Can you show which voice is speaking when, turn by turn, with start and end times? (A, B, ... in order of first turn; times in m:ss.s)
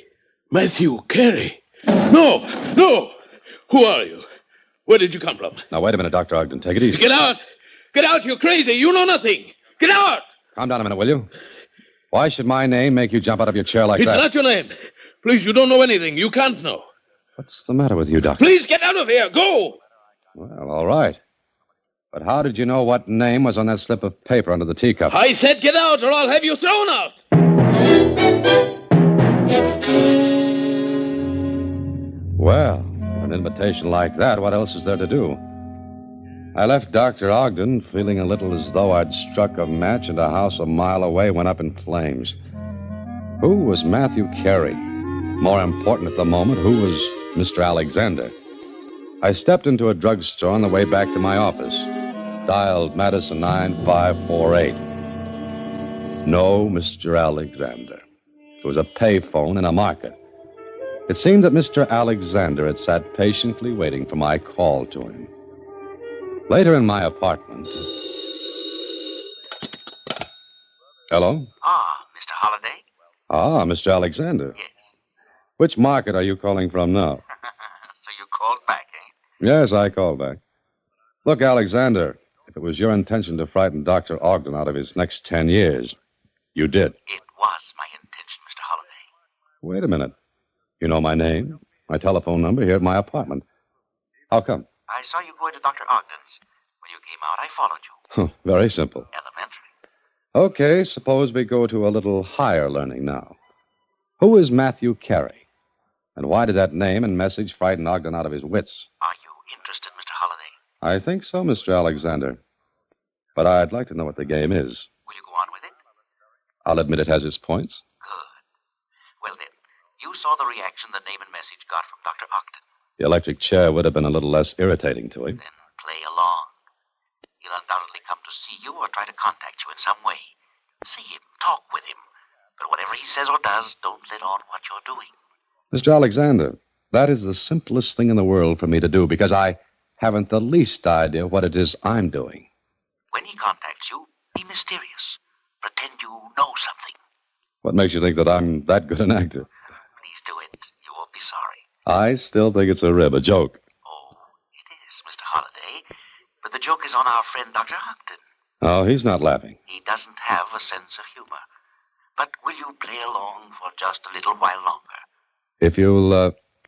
0:00.5-0:03.2 A
0:03.7-0:04.2 A
0:04.9-0:05.6 A
0:05.7-0:07.1 B
0:06.9-0:07.4 A
0:07.9-0:10.2 A
0:10.6-0:11.3 B
0:12.1-0:14.3 B
0:14.0-0:16.9 A
0:17.4-0:18.5 B
0:18.4-0:19.8 A
0:20.4-0:21.2 B
0:22.1-0:25.2 B
0:25.1-0:27.2 A
0:32.4-0:35.4 B
0:36.6-0:42.4 B
0:43.4-0:44.8 B
0:45.4-0:48.4 B
0:49.2-0:51.9 B
0:52.5-0:54.8 B
0:56.2-0:58.0 B
0:58.6-1:00.2 B
1:01.1-1:05.3 B
1:06.5-1:07.9 B
1:11.1-1:11.5 B
1:11.6-1:12.8 C
1:13.3-1:14.6 B
1:14.6-1:14.9 C
1:15.6-1:17.2 B
1:18.0-1:19.1 C
1:19.4-1:20.4 B
1:21.2-1:26.0 B
1:26.6-1:27.0 B
1:27.1-1:29.1 C
1:29.6-1:30.1 B
1:30.8-1:33.4 B
1:34.3-1:34.7 B
1:34.9-1:38.0 C
1:38.1-1:39.1 B
1:39.1-1:39.6 C
1:40.4-1:43.4 B
1:44.2-1:45.4 B
1:46.2-1:48.9 B
1:49.0-1:50.5 C
1:50.8-1:52.4 B
1:53.4-1:54.9 B
1:55.1-1:55.7 C
1:56.6-1:57.8 B
1:58.0-1:58.4 C
1:59.2-2:02.6 C
2:03.0-2:05.4 B
2:05.4-2:06.5 C
2:07.4-2:10.3 C
2:10.8-2:12.0 C
2:12.6-2:15.1 C
2:15.7-2:22.5 B
2:23.1-2:27.0 C
2:27.6-2:29.5 B
2:30.0-2:31.6 C
2:31.9-2:33.6 B
2:33.8-2:35.8 C
2:36.4-2:38.2 C
2:38.6-2:39.6 B
2:39.7-2:41.4 C
2:42.2-2:45.0 C
2:45.6-2:46.3 B